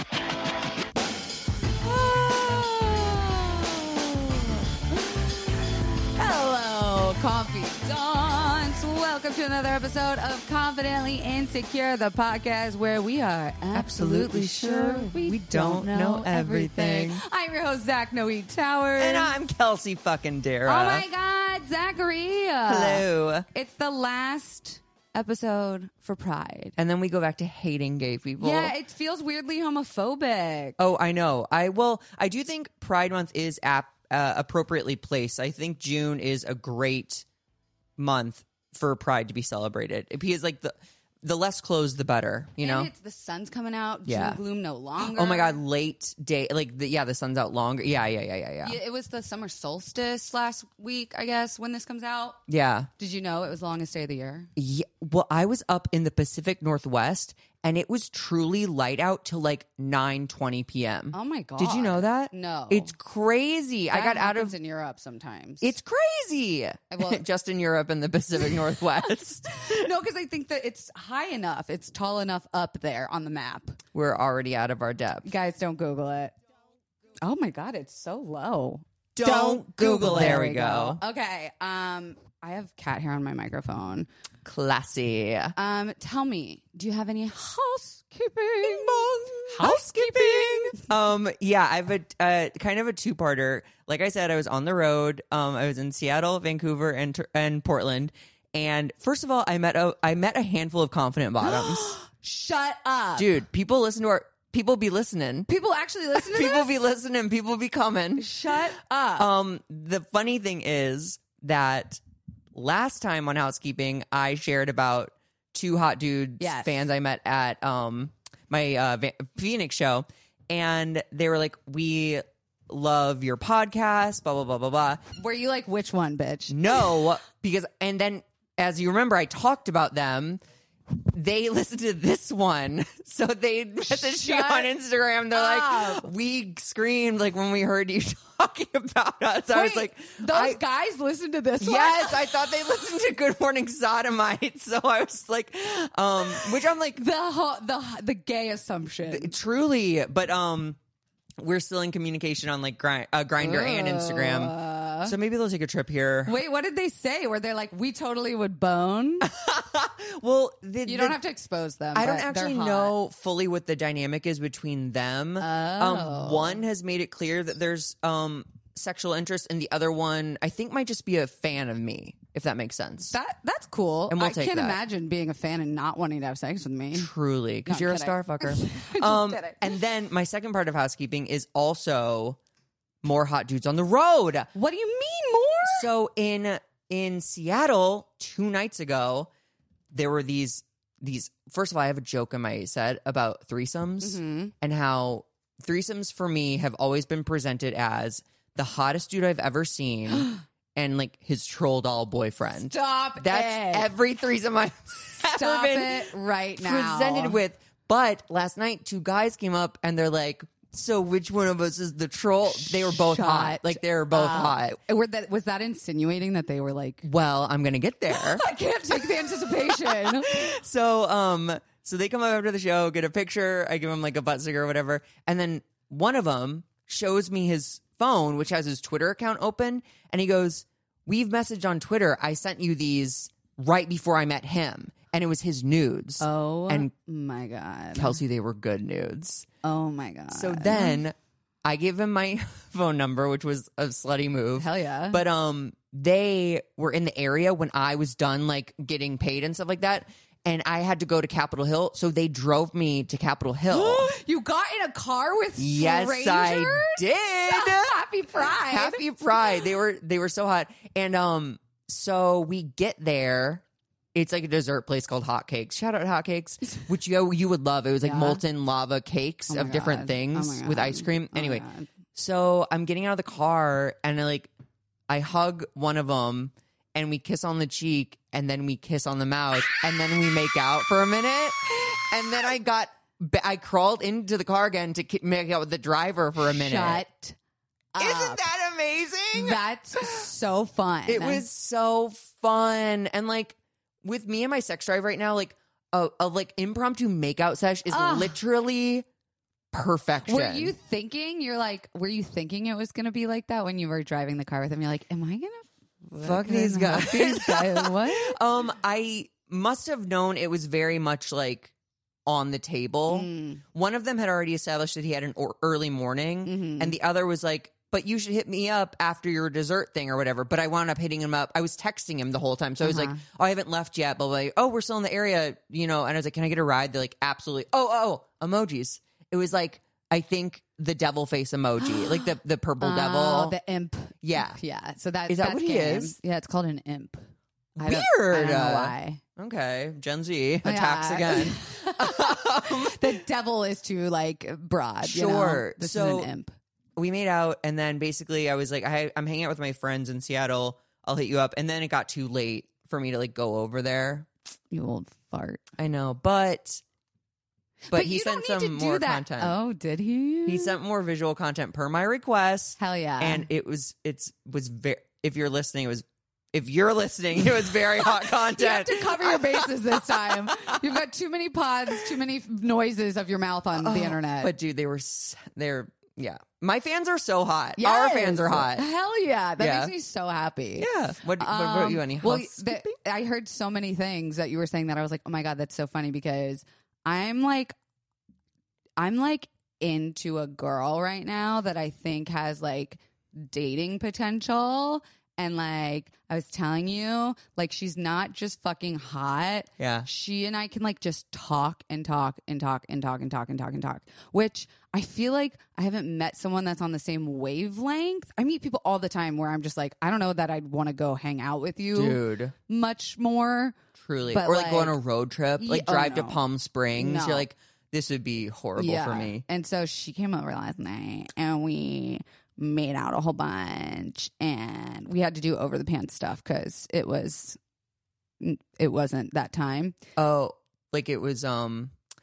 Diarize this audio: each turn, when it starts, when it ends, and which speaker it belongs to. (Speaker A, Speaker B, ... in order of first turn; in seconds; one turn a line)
Speaker A: 1.9-4.1
Speaker A: 6.2-19.3
Speaker B: 13.7-17.2
Speaker B: 19.0-21.1
Speaker A: 20.7-26.8
Speaker B: 22.7-23.4
Speaker B: 26.8-28.7
Speaker A: 28.4-30.8
Speaker B: 30.8-37.2
Speaker B: 38.0-42.9
Speaker A: 42.6-45.6
Speaker B: 44.0-44.4
Speaker B: 45.0-48.8
Speaker A: 48.6-52.4
Speaker B: 52.5-52.9
Speaker A: 53.0-54.5
Speaker B: 54.5-64.5
Speaker A: 61.1-62.9
Speaker A: 63.9-65.7
Speaker B: 65.6-69.9
Speaker A: 66.9-67.2
Speaker A: 68.4-73.8
Speaker B: 73.9-75.2
Speaker A: 75.2-76.3
Speaker A: 77.2-84.1
Speaker B: 79.2-81.0
Speaker B: 84.4-85.5
Speaker A: 85.5-90.9
Speaker B: 88.6-101.9
Speaker A: 101.4-103.4
Speaker B: 103.2-105.5
Speaker A: 105.5-106.7
Speaker B: 106.1-108.3
Speaker A: 108.2-109.3
Speaker B: 109.2-112.0
Speaker B: 112.5-125.0
Speaker A: 116.4-116.8
Speaker A: 125.2-127.0
Speaker B: 126.5-140.6
Speaker A: 133.9-134.7
Speaker A: 135.3-136.1
Speaker A: 139.5-142.6
Speaker B: 141.6-147.0
Speaker A: 147.0-149.3
Speaker B: 149.1-150.8
Speaker B: 151.4-156.4
Speaker A: 153.4-155.2
Speaker A: 156.2-159.3
Speaker B: 159.2-161.2
Speaker A: 160.9-162.9
Speaker B: 161.9-173.2
Speaker A: 165.4-166.6
Speaker A: 173.1-177.1
Speaker B: 174.1-174.8
Speaker B: 176.9-182.4
Speaker A: 177.7-179.7
Speaker B: 183.0-184.5
Speaker A: 184.6-185.9
Speaker B: 185.7-189.3
Speaker B: 189.9-214.8
Speaker A: 194.0-194.5
Speaker A: 202.5-203.9
Speaker A: 205.2-207.4
Speaker A: 212.5-217.1
Speaker B: 217.0-236.9
Speaker A: 218.1-220.6
Speaker A: 236.2-238.2
Speaker B: 237.9-239.5
Speaker A: 239.6-241.0
Speaker B: 240.3-254.1
Speaker A: 244.6-245.2
Speaker A: 253.7-259.0
Speaker B: 255.6-263.6
Speaker B: 264.1-274.5
Speaker A: 268.0-268.4
Speaker A: 269.5-271.9
Speaker B: 275.1-287.0
Speaker A: 286.4-287.4
Speaker A: 287.9-288.4
Speaker B: 288.0-290.2
Speaker A: 289.3-291.4
Speaker B: 291.1-299.1
Speaker A: 297.9-298.4
Speaker B: 299.7-300.7
Speaker A: 300.2-308.4
Speaker B: 306.2-311.7
Speaker B: 312.2-333.6
Speaker A: 313.1-313.6
Speaker A: 316.4-316.9
Speaker A: 322.8-323.2
Speaker A: 332.8-337.2
Speaker B: 334.2-334.6
Speaker B: 335.3-336.1
Speaker B: 337.8-343.2
Speaker A: 337.8-339.2
Speaker A: 340.6-346.6
Speaker B: 345.0-346.3
Speaker B: 346.9-354.3
Speaker A: 354.7-355.6
Speaker B: 355.8-356.8
Speaker B: 357.9-359.6
Speaker A: 357.9-360.7
Speaker B: 360.4-371.0
Speaker A: 362.8-363.5
Speaker A: 368.3-374.5
Speaker B: 373.8-378.9
Speaker A: 377.8-387.7
Speaker B: 379.6-379.9
Speaker B: 380.8-383.0
Speaker A: 389.0-413.8
Speaker B: 399.8-400.1
Speaker B: 411.9-412.5
Speaker B: 413.9-419.4
Speaker A: 414.3-414.9
Speaker A: 415.6-416.4
Speaker A: 416.9-417.5
Speaker A: 418.8-427.6
Speaker A: 428.4-429.9
Speaker B: 430.2-431.9